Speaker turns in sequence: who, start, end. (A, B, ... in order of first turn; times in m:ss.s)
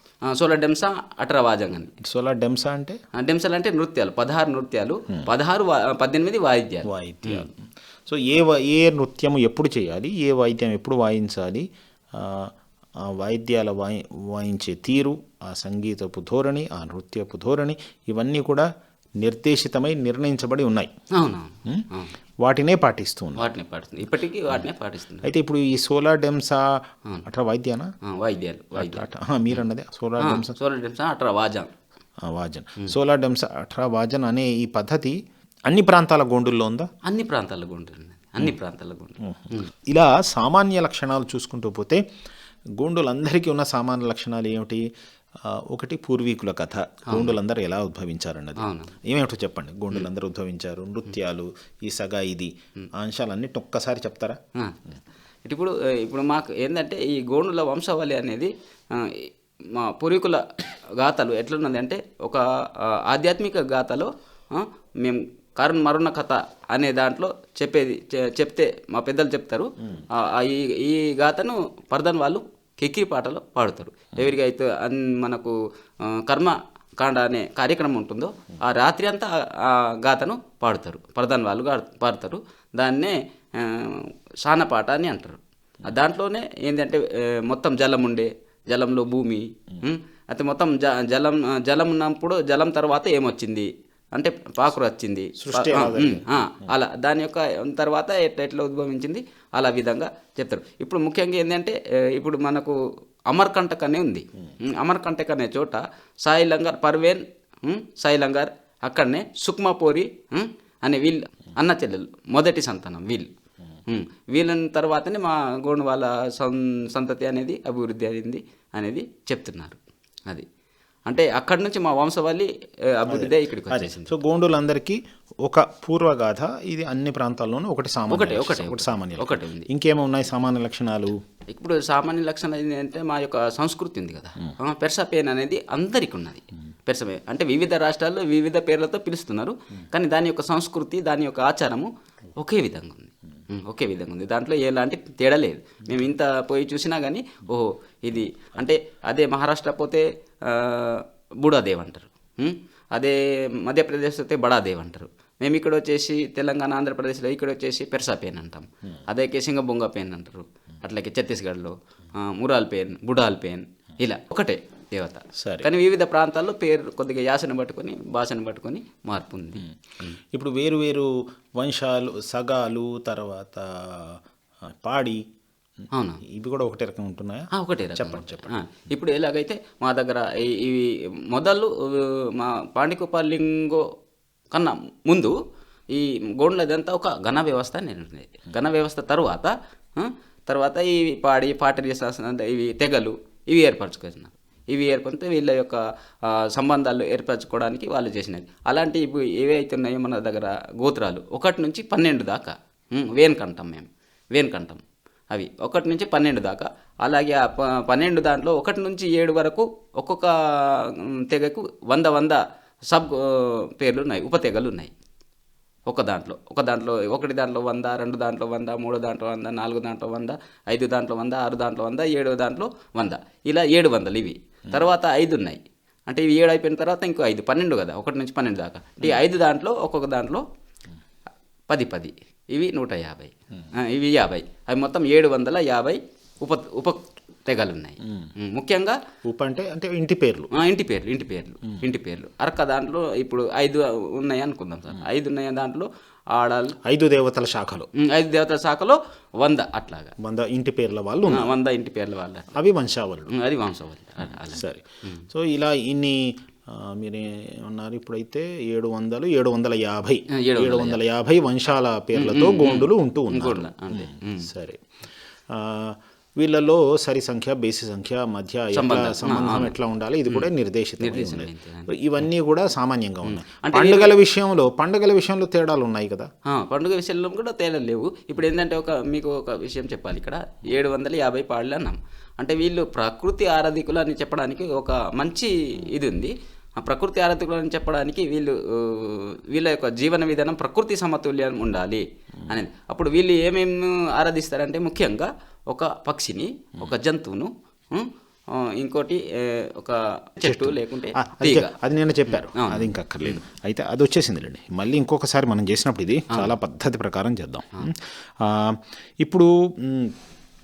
0:00.3-0:01.9 A
0:02.0-0:03.0 B
0:03.2-0:07.5 A
0:06.8-0:07.6 B
0:08.1-0:12.5 B
0:13.1-0:18.7 B
0:19.2-0:20.9 B
0:21.1-0:22.1 A
0:22.4-0:23.5 B
0:23.4-0:25.3 A
0:25.2-0:26.6 B
0:27.2-0:27.9 B
0:28.1-0:29.6 A
0:28.8-0:30.5 B
0:30.2-0:31.7 A
0:32.2-0:35.2 B
0:35.7-0:36.9 B
0:37.1-0:39.7 A
0:39.2-0:42.0 B
0:42.8-0:44.8 B
0:45.4-0:54.4 B
0:47.1-0:47.4 A
0:48.6-0:48.9 A
0:55.4-1:00.4 A
1:01.0-1:15.6 A
1:09.8-1:10.1 B
1:16.1-1:42.8 A
1:35.4-1:36.3 B
1:43.3-1:53.3 A
1:53.9-2:00.4 A
2:01.1-2:04.2 A
2:03.1-2:11.1 B
2:08.1-2:09.7 A
2:11.5-2:50.2 A
2:45.4-2:45.7 B
2:50.3-2:55.2 B
2:55.9-2:56.2 A
2:56.2-2:58.6 B
2:57.5-3:03.8 A
3:04.5-3:05.4 A
3:05.9-3:34.9 A
3:35.9-3:50.4 A
3:51.7-3:59.0 A
3:59.2-4:00.5 B
4:00.5-4:06.8 A
4:06.9-4:07.9 B
4:08.0-4:10.1 A
4:10.2-4:11.5 B
4:11.3-4:12.5 A
4:12.5-4:13.4 B
4:13.3-4:15.2 A
4:14.2-4:24.8 B
4:20.4-4:21.0 A
4:22.1-4:24.5 A
4:25.5-4:36.3 B
4:28.7-4:29.8 A
4:30.3-4:31.9 A
4:33.2-4:34.1 A
4:36.5-5:01.7 A
5:00.4-5:10.1 B
5:02.3-5:03.4 A